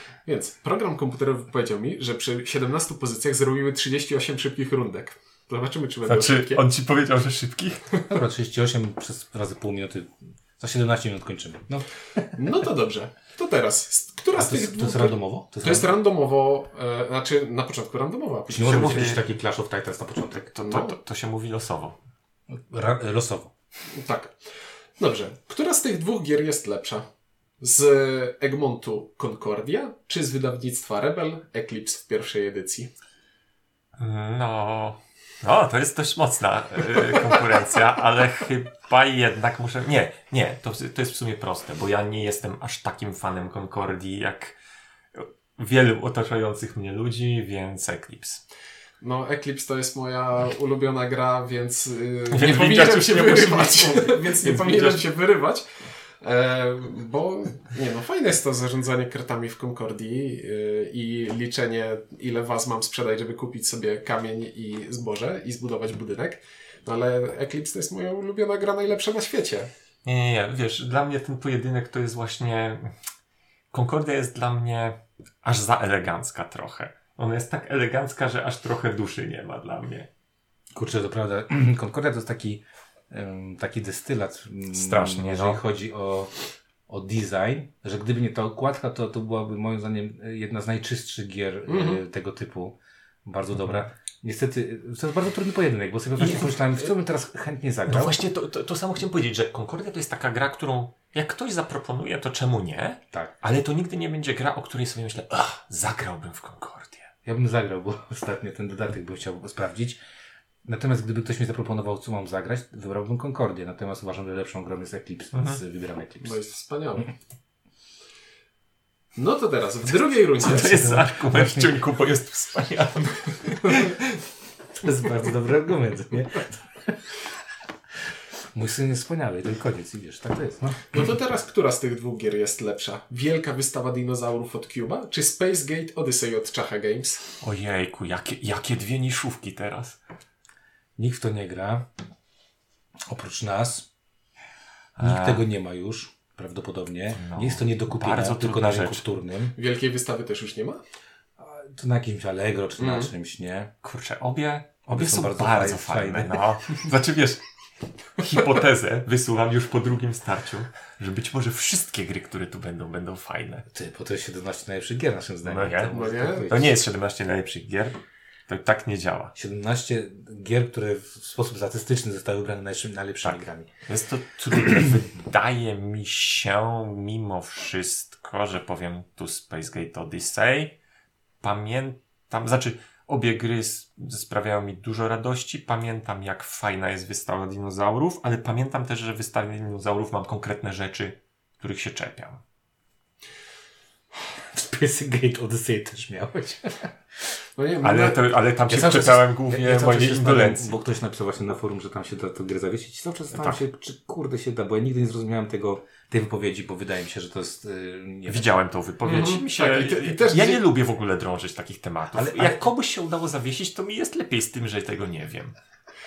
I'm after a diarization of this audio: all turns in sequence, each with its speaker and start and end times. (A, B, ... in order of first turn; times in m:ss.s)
0:00.2-0:06.6 A
0:06.1-0:08.0 B
0:08.1-0:12.4 C
0:12.3-0:19.2 A
0:14.3-0:15.9 C
0:18.5-0:20.5 C
0:18.6-0:19.2 B
0:20.5-0:22.0 B
0:20.6-0:21.0 A
0:22.5-0:23.5 C
0:23.9-0:24.3 A
0:25.0-0:27.0 A
0:27.6-0:32.9 A
0:34.0-0:44.6 B
0:45.1-0:48.4 B
0:49.0-0:55.6 A
0:52.3-0:55.0 B
0:56.2-1:09.7 A
1:10.0-1:12.9 B
1:13.7-1:20.1 B
1:20.7-1:26.3 C
1:24.7-1:25.6 B
1:26.9-1:38.2 C
1:31.7-1:32.0 A
1:36.2-1:36.9 B
1:37.9-1:47.1 B
1:43.1-1:43.4 C
1:47.2-1:50.0 C
1:50.6-1:56.4 C
1:55.3-1:55.6 B
1:56.2-1:57.1 A
1:59.1-2:00.9 A
2:00.3-2:04.0 B
2:00.4-2:01.8 C
2:04.8-2:07.0 C
2:08.5-2:11.0 C
2:10.9-2:17.2 A
2:17.4-2:20.0 B
2:21.0-2:21.9 C
2:23.1-2:23.9 C
2:25.0-2:25.4 B
2:25.0-2:29.6 C
2:27.2-2:29.0 B
2:29.5-2:30.8 A
2:31.4-2:33.7 C
2:32.8-2:33.1 A
2:33.8-2:37.4 B
2:34.9-2:36.4 C
2:38.2-2:43.6 B
2:43.7-2:46.8 C
2:45.4-2:45.9 B
2:45.9-2:46.5 A
2:46.5-2:49.3 B
2:49.3-2:53.7 C
2:53.2-3:00.7 B
3:01.4-3:12.4 B
3:14.5-3:16.9 C
3:17.6-3:18.2 A
3:17.8-3:20.7 B
3:18.7-3:28.6 C
3:23.3-3:23.6 B
3:28.3-3:35.5 B
3:29.0-3:30.6 A
3:32.1-3:32.6 C